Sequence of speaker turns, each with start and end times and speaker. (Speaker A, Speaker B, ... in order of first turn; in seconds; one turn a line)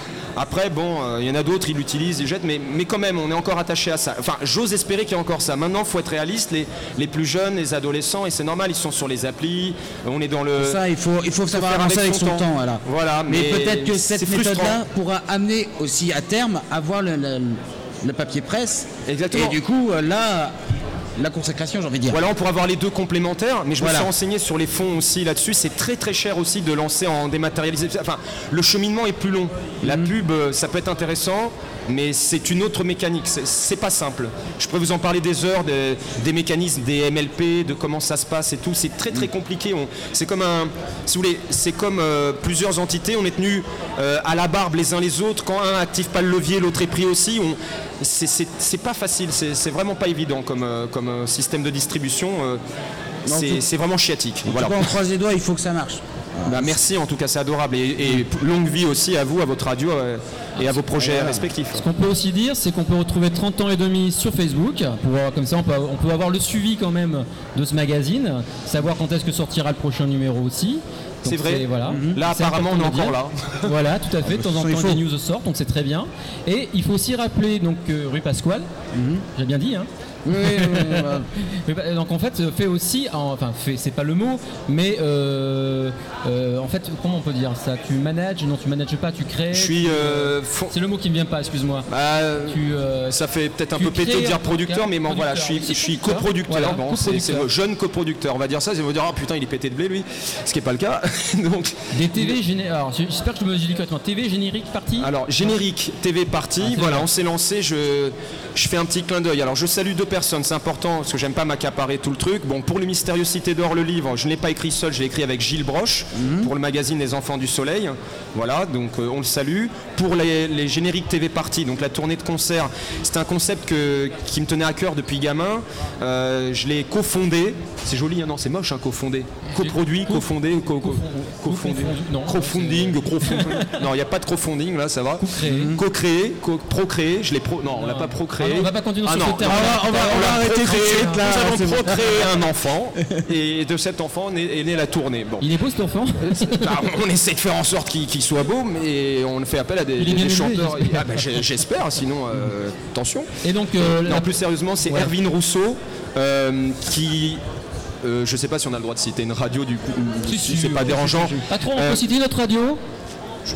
Speaker A: 0.3-10.8
Speaker B: 10.6-20.5
Speaker A: 11.5-14.8
Speaker A: 19.1-19.6
Speaker B: 21.2-22.2
Speaker A: 22.1-52.6
Speaker B: 23.8-24.1
Speaker B: 29.8-30.1
Speaker A: 53.2-54.9
Speaker B: 53.3-53.6
Speaker B: 54.5-56.8
Speaker A: 56.5-61.8
Speaker B: 61.0-61.4
Speaker C: 61.7-78.7
Speaker A: 71.2-73.7
Speaker B: 71.9-72.2
Speaker B: 74.3-75.0
Speaker B: 78.9-79.2
Speaker C: 79.3-91.8
Speaker B: 80.2-81.3
Speaker A: 89.5-90.7
Speaker A: 91.9-102.4
Speaker C: 92.4-93.2
Speaker C: 93.7-97.5
Speaker C: 101.9-105.6
Speaker A: 105.0-145.4
Speaker C: 106.6-107.1
Speaker B: 116.2-116.5
Speaker C: 129.5-133.8
Speaker C: 135.2-135.8
Speaker B: 135.4-135.8
Speaker C: 137.7-141.3
Speaker B: 139.4-142.4
Speaker C: 145.4-146.7
Speaker A: 146.3-153.3
Speaker C: 150.0-151.2
Speaker C: 153.4-154.3
Speaker A: 153.8-157.4
Speaker C: 154.8-155.1
Speaker A: 158.0-162.0
Speaker C: 160.2-162.8